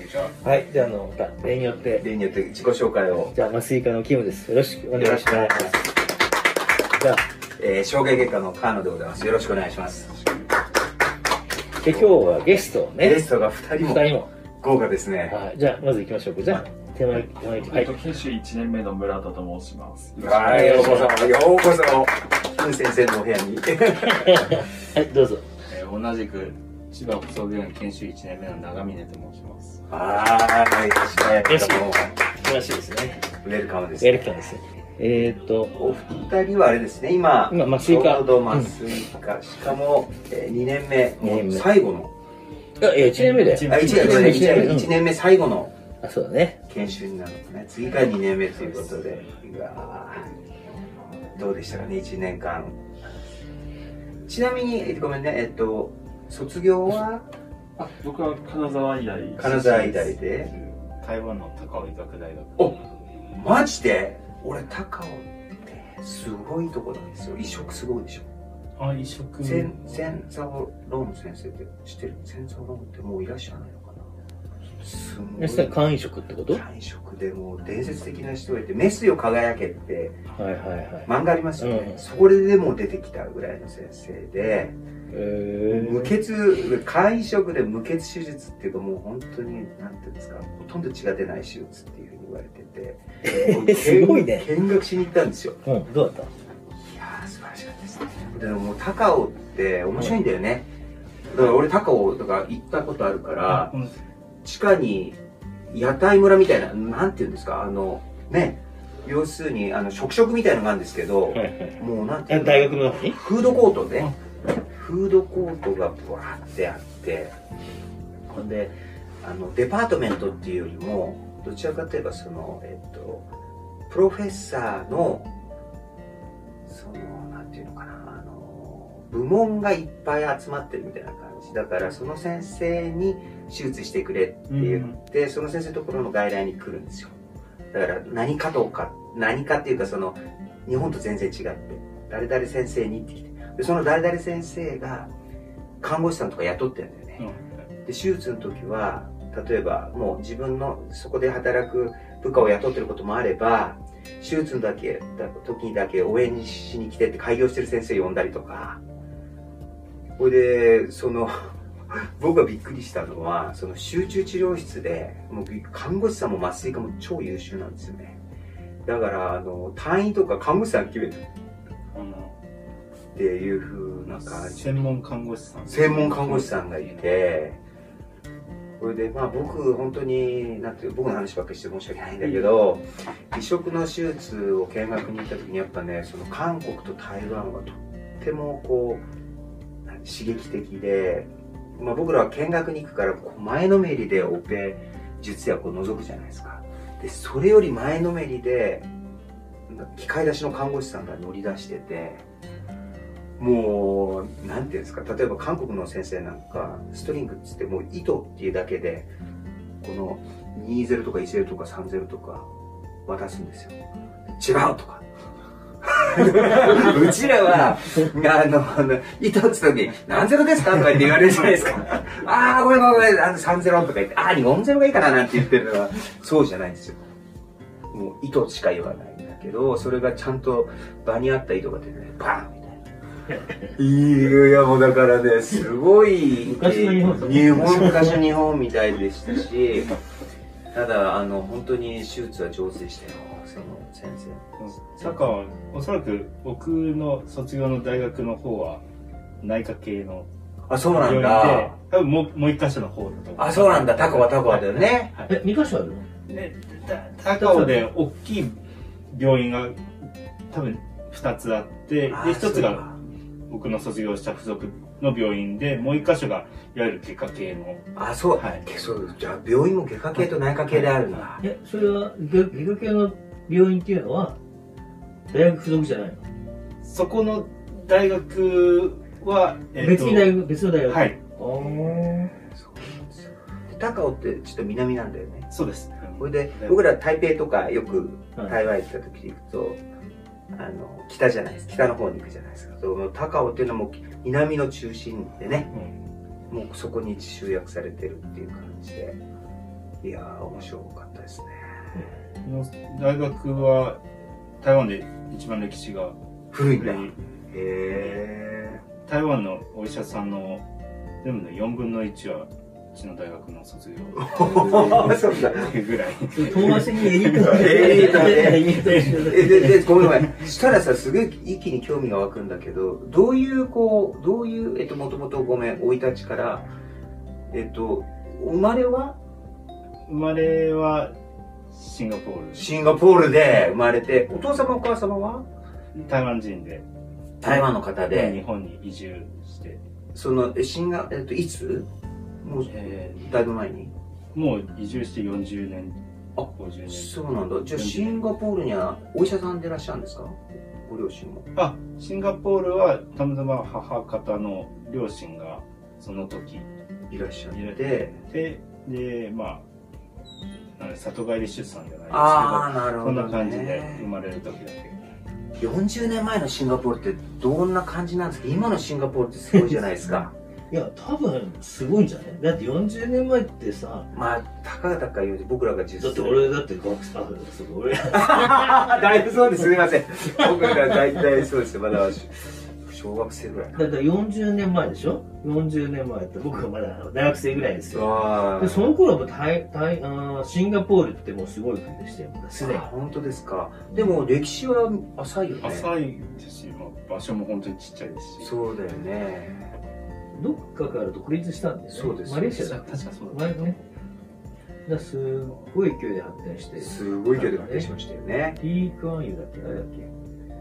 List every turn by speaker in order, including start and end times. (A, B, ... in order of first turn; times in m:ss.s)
0:00.4-0:02.1 A
0:02.0-0:03.4 B
0:03.3-0:05.9 A
0:04.9-0:05.9 B
0:06.9-0:07.2 A
0:07.6-0:10.2 B
0:11.8-0:13.2 A
0:11.8-0:12.2 B
0:13.0-0:15.4 B
0:13.8-0:14.3 A
0:15.3-0:17.9 A
0:17.5-0:21.1 C
0:20.2-0:24.6 B
0:20.4-0:21.2 A
0:24.2-0:25.4 A
0:25.7-0:29.8 D
0:29.9-0:32.1 B
0:31.4-0:33.3 A
0:33.4-0:34.5 B
0:34.0-0:35.8 A
0:35.8-0:42.1 B
0:37.5-0:38.8 A
0:41.2-0:41.7 A
0:42.8-0:45.0 A
0:43.1-0:44.8 D
0:43.7-0:45.8 B
0:46.0-0:46.6 A
0:46.7-0:50.3 B
0:48.6-0:49.2 D
0:51.3-0:52.8 B
0:54.3-0:57.3 B
0:57.8-0:59.5 C
0:59.4-1:00.5 B
0:59.4-1:02.9 D
1:03.3-1:08.3 B
1:08.8-1:10.2 D
1:09.4-1:14.1 B
1:14.8-1:15.8 B
1:15.4-1:16.6 A
1:16.5-1:20.2 B
1:20.4-1:22.0 A
1:21.1-1:24.8 B
1:25.1-1:26.1 A
1:25.7-1:35.6 B
1:33.2-1:34.5 A
1:35.6-1:36.3 A
1:36.8-1:40.7 B
1:41.3-1:43.7 B
1:43.5-1:44.0 D
1:44.4-1:54.1 B
1:51.3-1:53.2 A
1:54.7-1:57.4 B
1:58.3-2:03.3 B
2:03.9-2:05.3 B
2:06.6-2:17.2 B
2:14.5-2:15.0 D
2:17.7-2:25.1 B
2:25.8-2:27.2 B
2:27.2-2:27.7 D
2:27.8-2:38.8 B
2:40.2-2:48.2 B
2:48.8-2:51.3 B
2:51.9-2:52.3 D
2:53.1-2:54.8 B
2:54.1-2:57.1 D
2:55.7-2:57.6 B
2:58.8-3:09.0 B
3:09.9-3:18.9 B
3:19.7-3:22.2 B
3:23.4-3:29.1 B
3:29.8-3:32.5 B
3:33.1-3:33.8 B
3:34.4-3:35.0 B
3:35.8-3:47.0 B
3:47.9-3:52.8 B
3:53.7-3:59.9 B
3:56.4-3:58.2 A
4:00.7-4:05.2 B
4:04.6-4:08.8 D
4:09.4-4:10.3 D
4:10.7-4:11.7 B
4:10.9-4:15.3 D
4:13.4-4:15.1 B
4:15.3-4:16.0 A
4:16.3-4:18.6 D
4:17.3-4:17.9 A
4:19.1-4:19.8 D
4:20.5-4:23.0 D
4:22.1-4:23.0 B
4:23.5-4:27.9 D
4:28.0-4:31.4 B
4:28.4-4:28.6 D
4:30.7-4:31.3 D
4:31.4-4:34.4 A
4:35.3-4:36.2 A
4:36.8-4:40.4 D
4:39.8-4:42.3 A
4:40.9-4:41.2 D
4:41.7-4:45.5 B
4:45.5-4:46.8 D
4:46.2-4:49.8 B
4:50.5-4:55.7 B
4:56.5-4:59.2 B
5:00.0-5:01.6 B
5:02.4-5:04.0 D
5:04.6-5:06.2 D
5:06.5-5:08.8 B
5:06.7-5:07.2 D
5:07.9-5:08.3 D
5:09.0-5:10.6 D
5:11.2-5:17.7 D
5:14.2-5:15.7 B
5:16.3-5:20.0 A
5:16.5-5:16.8 B
5:17.4-5:26.7 B
5:27.5-5:29.2 B
5:30.1-5:31.1 D
5:31.7-5:32.7 D
5:32.5-5:35.5 B
5:36.0-5:36.9 D
5:37.4-5:38.4 B
5:37.4-5:39.8 D
5:40.1-5:41.9 B
5:42.4-5:43.9 B
5:42.7-5:43.3 D
5:44.3-5:47.2 D
5:46.4-5:51.5 B
5:47.7-5:48.2 D
5:51.6-5:56.7 D
5:57.1-5:58.2 B
5:57.5-5:59.6 D
6:00.8-6:05.1 D
6:02.1-6:04.1 B
6:05.6-6:10.3 B
6:09.5-6:14.1 A
6:14.1-6:16.6 B
6:16.0-6:18.6 A
6:18.1-6:23.9 B
6:23.7-6:32.9 A
6:27.9-6:29.0 B
6:32.6-6:35.9 B
6:33.9-6:34.2 A
6:35.6-6:38.5 D
6:38.4-6:39.7 B
6:40.4-6:43.8 A
6:41.9-6:42.7 B
6:42.5-6:43.8 D
6:44.9-6:47.9 A
6:46.8-6:48.6 B
6:48.6-6:50.1 A